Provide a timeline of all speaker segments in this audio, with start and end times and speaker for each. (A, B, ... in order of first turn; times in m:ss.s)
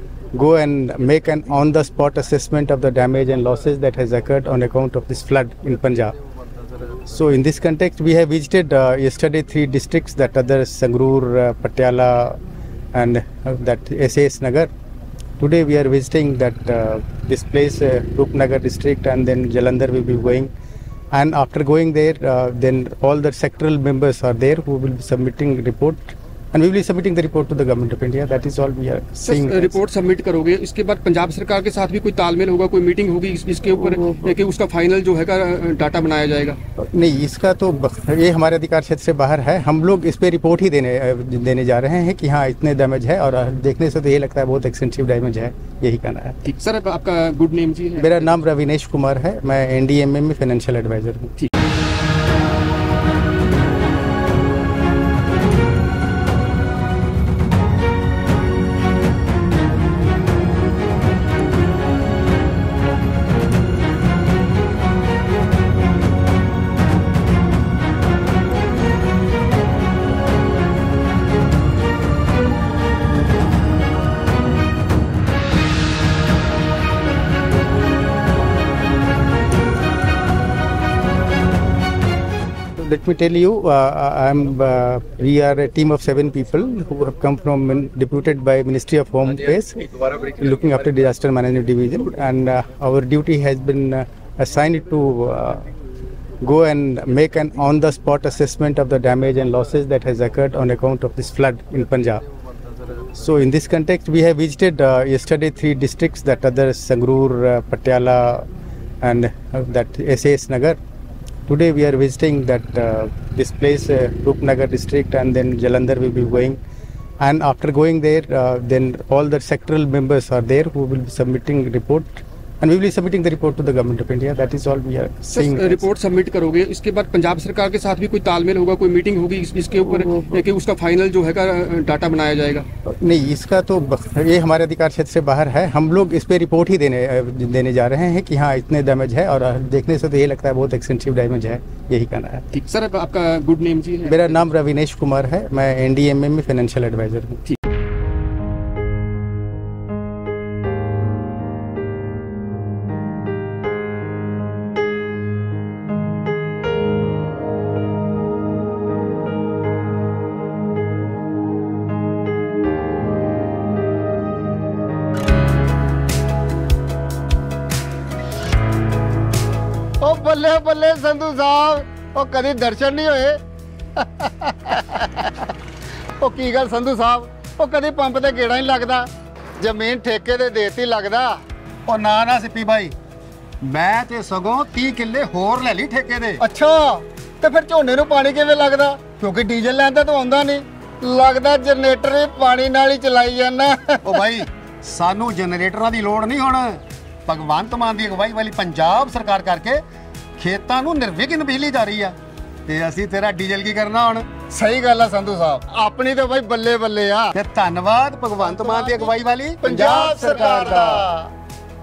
0:00.3-0:06.2 A
0:07.0-0:12.4 A
0:12.9-0:14.7 A
0:15.4-0:20.5 A
0:21.1-0:29.8 A
0:29.2-0:36.6 B
0:36.8-0:46.4 A
0:46.4-0:48.3 B
0:48.0-0:51.3 A
1:22.8-1:35.6 A
1:36.4-1:42.2 A
1:43.1-1:48.5 A
1:49.0-1:50.8 A
1:51.5-1:56.6 A
1:57.2-2:05.9 A
2:05.3-2:12.7 B
2:12.9-2:22.4 A
2:22.5-2:24.3 B
2:24.0-2:27.4 A
2:50.0-2:53.4 C
2:54.0-2:55.5 C
2:56.2-2:59.1 C
2:59.6-3:01.4 C
3:01.9-3:02.9 D
3:03.6-3:06.4 D
3:06.4-3:14.4 C
3:14.0-3:19.8 D
3:20.4-3:22.2 D
3:22.7-3:24.4 D
3:24.4-3:27.4 C
3:27.4-3:31.1 D
3:28.4-3:31.3 C